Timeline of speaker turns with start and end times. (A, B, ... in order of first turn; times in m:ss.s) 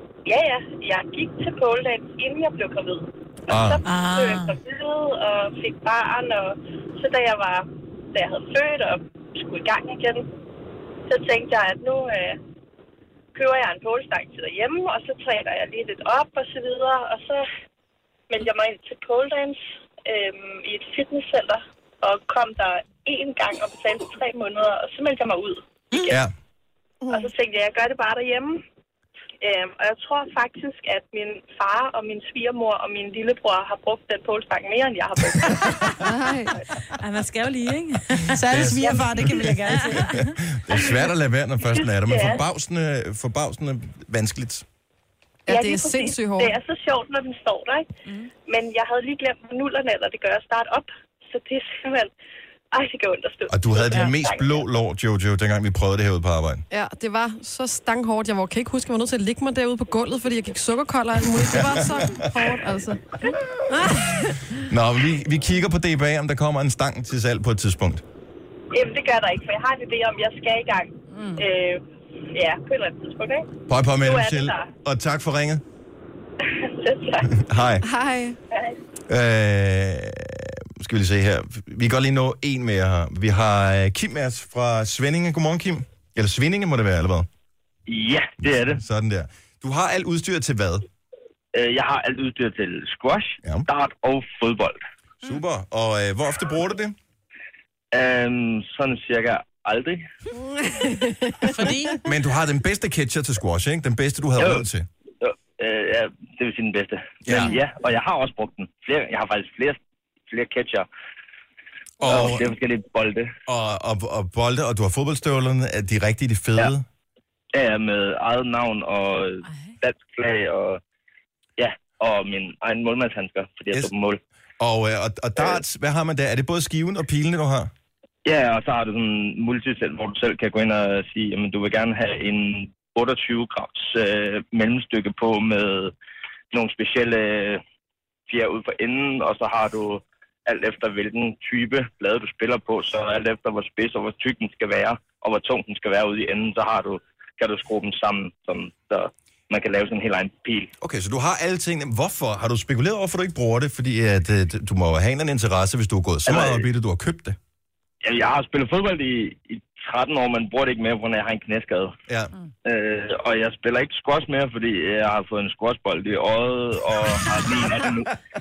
0:00.2-0:10.3 A
0:03.5-0:03.8 B
0:03.8-0:04.5 C
0:03.9-0:04.3 D
0:11.1-0:12.4 A
0:13.3-0:17.4 A
0:18.3-0:26.2 A
0:26.0-0:26.3 B
0:27.1-0:28.6 A
0:29.4-0:36.0 A
0:36.0-0:36.5 E
0:37.0-0:40.3 C
0:38.3-0:40.2 D
0:38.5-0:44.6 B
0:41.6-0:42.4 A
0:45.4-0:46.6 E
0:45.5-0:47.9 A
0:48.5-0:52.1 A
0:52.7-0:54.6 A
0:53.5-0:56.6 B
0:56.7-1:03.0 E
1:01.5-1:02.4 B
1:03.3-1:08.0 B
1:03.7-1:04.5 E
1:08.7-1:14.7 A
1:13.7-1:15.6 B
1:16.4-1:17.4 A
1:17.3-1:17.9 B
1:17.8-1:18.4 E
1:18.5-1:18.8 A
1:19.1-1:27.3 B
1:27.9-1:28.8 F
1:28.4-1:30.8 B
1:31.5-1:34.8 F
1:35.2-1:37.0 B
1:37.9-1:40.0 F
1:40.4-1:41.5 E
1:41.4-1:42.0 D
1:42.0-1:44.9 B
1:44.4-1:44.7 F
1:45.2-1:49.8 F
1:47.2-1:47.6 B
1:50.3-1:50.9 F
1:52.0-1:52.5 B
1:52.0-1:53.3 F
1:53.4-1:56.8 B
1:57.5-2:00.8 F
2:01.6-2:04.2 F
2:04.6-2:07.7 B
2:08.2-2:15.9 F
2:16.5-2:17.6 F
2:18.3-2:30.7 F
2:30.8-2:37.4 B
2:36.3-2:36.7 F
2:38.0-2:41.9 F
2:42.6-2:48.1 F